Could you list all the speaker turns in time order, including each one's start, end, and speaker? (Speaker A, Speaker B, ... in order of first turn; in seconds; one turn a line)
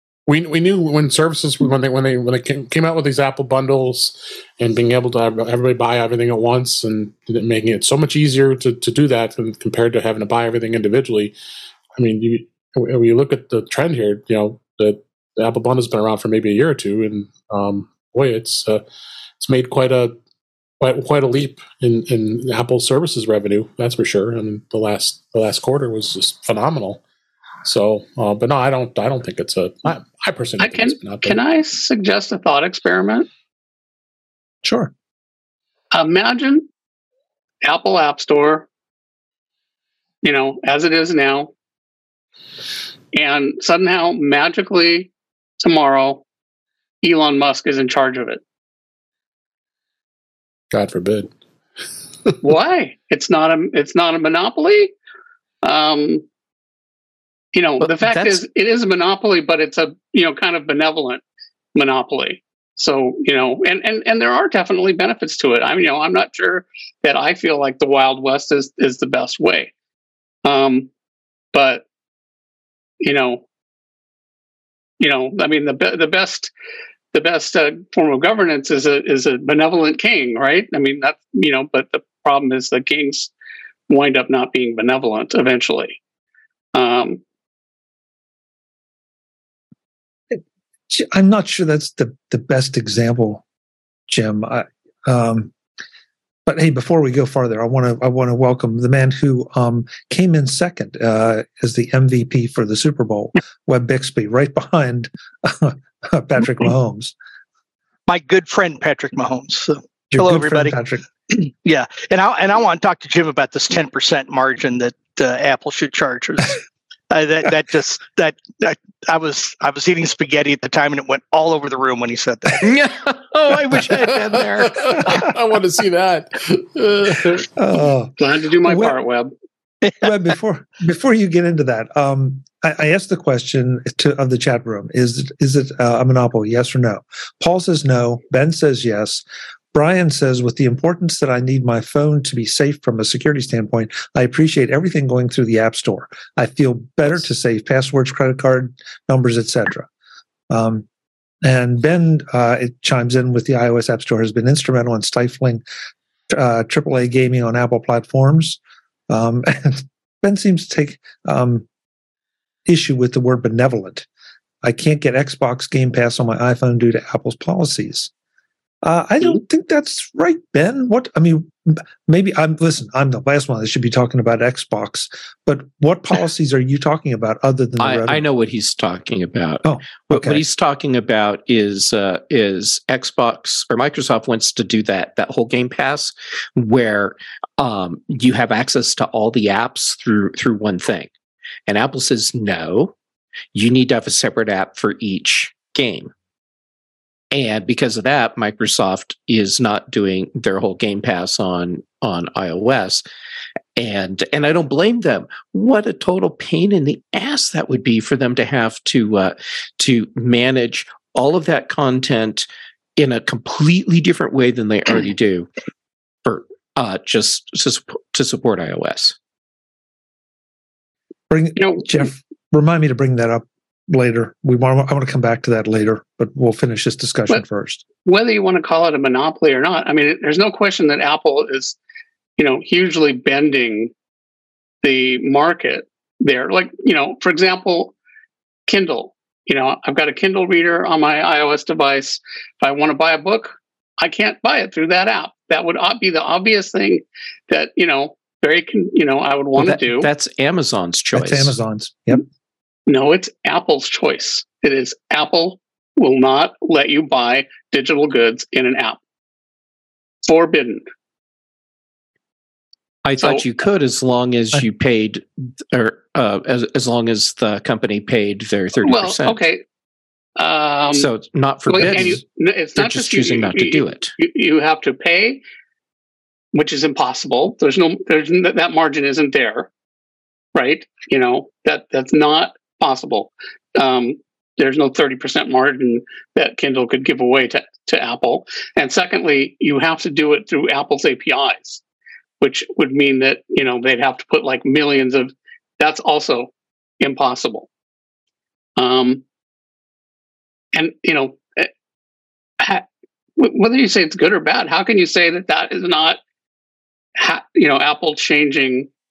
Speaker A: 0.3-11.3
Speaker A: 12.0-18.8
Speaker A: 19.4-20.1
Speaker A: 20.8-27.0
Speaker A: 27.6-31.4
Speaker B: 30.6-33.3
Speaker C: 34.6-34.9
Speaker B: 35.9-36.7
Speaker B: 37.6-38.7
Speaker B: 40.2-41.5
Speaker B: 43.1-46.2
Speaker B: 47.0-48.4
Speaker A: 50.7-51.3
Speaker B: 52.4-54.9
Speaker B: 55.6-56.2
Speaker B: 57.5-61.2
Speaker D: 57.8-58.4
Speaker B: 61.8-69.7
Speaker B: 70.4-70.9
Speaker B: 71.5-71.8
Speaker B: 73.0-73.4
Speaker B: 75.0-76.5
Speaker B: 77.1-83.3
Speaker B: 83.9-86.0
Speaker B: 86.7-87.2
Speaker C: 90.3-93.4
Speaker C: 94.1-95.5
Speaker C: 96.5-107.1
Speaker E: 108.1-110.8
Speaker C: 110.1-111.0
Speaker E: 111.3-122.7
Speaker D: 122.6-125.2
Speaker A: 124.7-127.5
Speaker C: 127.5-129.0
Speaker B: 128.2-129.3
Speaker C: 130.0-149.9
Speaker C: 150.5-150.8
Speaker C: 151.4-155.6
Speaker C: 156.3-158.6
Speaker C: 159.1-161.7
Speaker C: 162.7-164.1
Speaker C: 164.6-168.1
Speaker C: 168.8-178.2
Speaker D: 177.8-191.1
Speaker C: 179.6-180.4
Speaker D: 191.7-192.9
Speaker D: 193.5-196.1
Speaker D: 197.3-203.0
Speaker D: 203.8-215.5
Speaker D: 216.2-219.2
Speaker C: 221.3-227.8
Speaker B: 221.6-221.8
Speaker B: 228.1-231.8
Speaker B: 232.4-233.9
Speaker B: 234.8-237.9
Speaker B: 238.7-250.1
Speaker D: 249.6-251.6
Speaker C: 251.1-252.2
Speaker B: 252.9-259.0
Speaker B: 260.3-260.8
Speaker D: 263.1-269.4
Speaker B: 268.8-269.6
Speaker B: 270.4-271.1
Speaker D: 270.9-272.2
Speaker B: 271.7-275.4
Speaker C: 271.8-272.2
Speaker D: 272.8-274.1
Speaker B: 276.5-279.7
Speaker B: 280.6-291.8
Speaker B: 292.4-297.7
Speaker B: 298.8-299.2
Speaker B: 300.7-301.7
Speaker B: 302.6-302.9
Speaker B: 303.4-306.2
Speaker B: 307.2-308.9